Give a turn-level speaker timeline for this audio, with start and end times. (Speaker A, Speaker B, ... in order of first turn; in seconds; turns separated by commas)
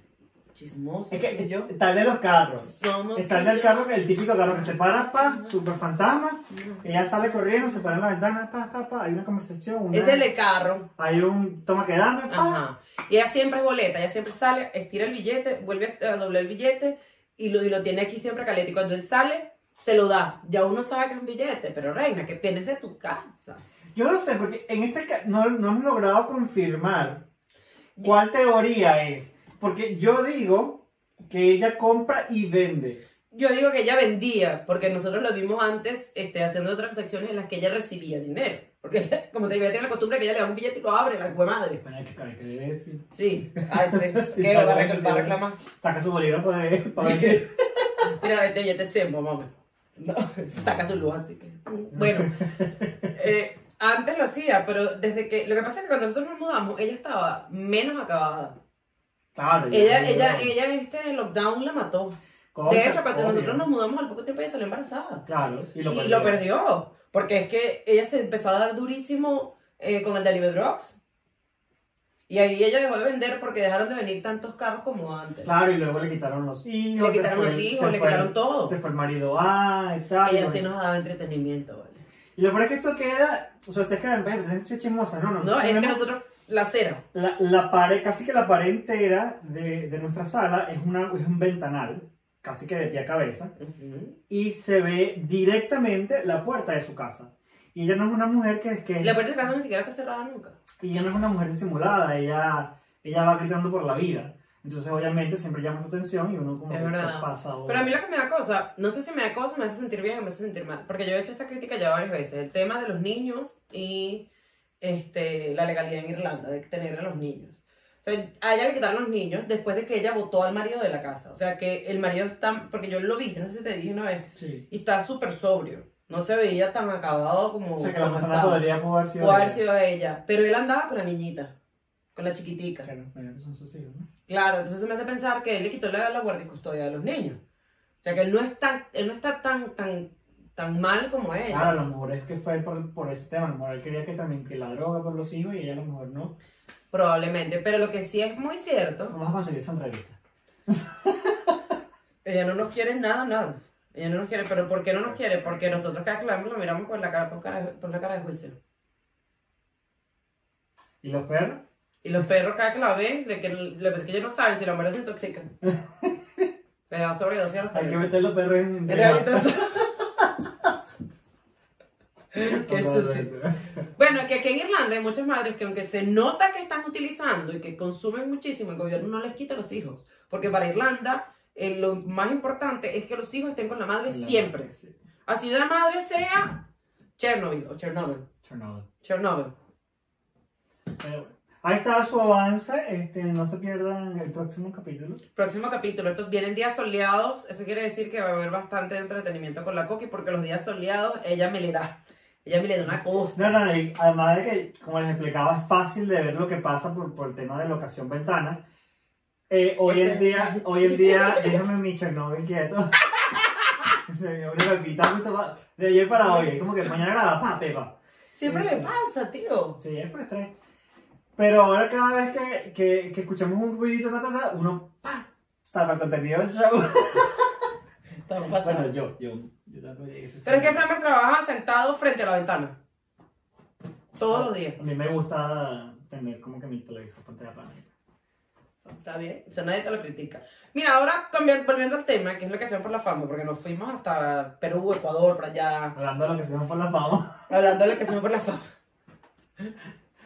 Speaker A: 0.5-1.7, Speaker B: 1.1-10.3, Speaker A: 2.7-5.5, Speaker A: 6.5-7.0, Speaker A: 9.9-10.9, Speaker B: 11.0-12.6, Speaker A: 12.3-23.6, Speaker B: 23.9-27.2, Speaker B: 28.0-33.0, Speaker A: 33.3-41.8, Speaker B: 41.8-48.1, Speaker A: 43.1-45.6, Speaker A: 47.0-47.5, Speaker A: 48.0-52.4, Speaker B: 51.9-53.1, Speaker A: 53.1-58.6, Speaker B: 59.3-60.5, Speaker A: 59.7-62.1, Speaker B: 62.5-63.7, Speaker A: 62.7-65.2, Speaker B: 65.2-66.4, Speaker A: 65.9-71.0, Speaker A: 72.3-75.5, Speaker B: 75.4-80.6, Speaker A: 77.0-78.7, Speaker A: 80.2-82.0, Speaker B: 82.3-86.0, Speaker A: 85.4-87.0, Speaker B: 87.1-93.5, Speaker A: 93.6-94.2, Speaker B: 94.3-99.2, Speaker A: 99.0-100.6, Speaker B: 100.8-107.9, Speaker A: 106.7-114.3, Speaker A: 114.8-128.6, Speaker B: 124.3-124.7, Speaker B: 127.8-129.6, Speaker A: 129.2-131.5, Speaker A: 132.1-132.9, Speaker B: 132.8-134.1, Speaker A: 134.3-137.4, Speaker A: 138.0-141.7, Speaker B: 141.5-146.3, Speaker A: 146.9-149.1, Speaker B: 149.1-151.7, Speaker A: 152.2-158.6, Speaker B: 155.1-155.8, Speaker B: 161.0-161.6, Speaker A: 162.0-165.5, Speaker B: 165.6-166.5, Speaker A: 166.9-168.1, Speaker B: 167.7-170.7, Speaker A: 168.9-169.9, Speaker A: 172.3-173.3, Speaker B: 172.4-173.8, Speaker A: 173.9-184.7, Speaker B: 184.1-184.9, Speaker A: 185.2-186.6, Speaker A: 187.2-188.3, Speaker B: 188.4-188.9, Speaker A: 189.0-189.5, Speaker B: 191.0-195.2, Speaker A: 195.3-203.6, Speaker B: 203.3-208.6, Speaker B: 209.5-213.0, Speaker A: 209.8-211.6, Speaker A: 213.3-213.7, Speaker B: 214.1-218.9, Speaker A: 218.3-219.8, Speaker B: 219.8-220.5, Speaker B: 221.4-227.7, Speaker A: 228.2-228.9, Speaker B: 228.6-230.9, Speaker A: 230.4-232.8, Speaker A: 234.1-234.8, Speaker B: 234.3-237.9, Speaker A: 239.0-245.9, Speaker B: 245.9-247.5, Speaker A: 247.5-248.7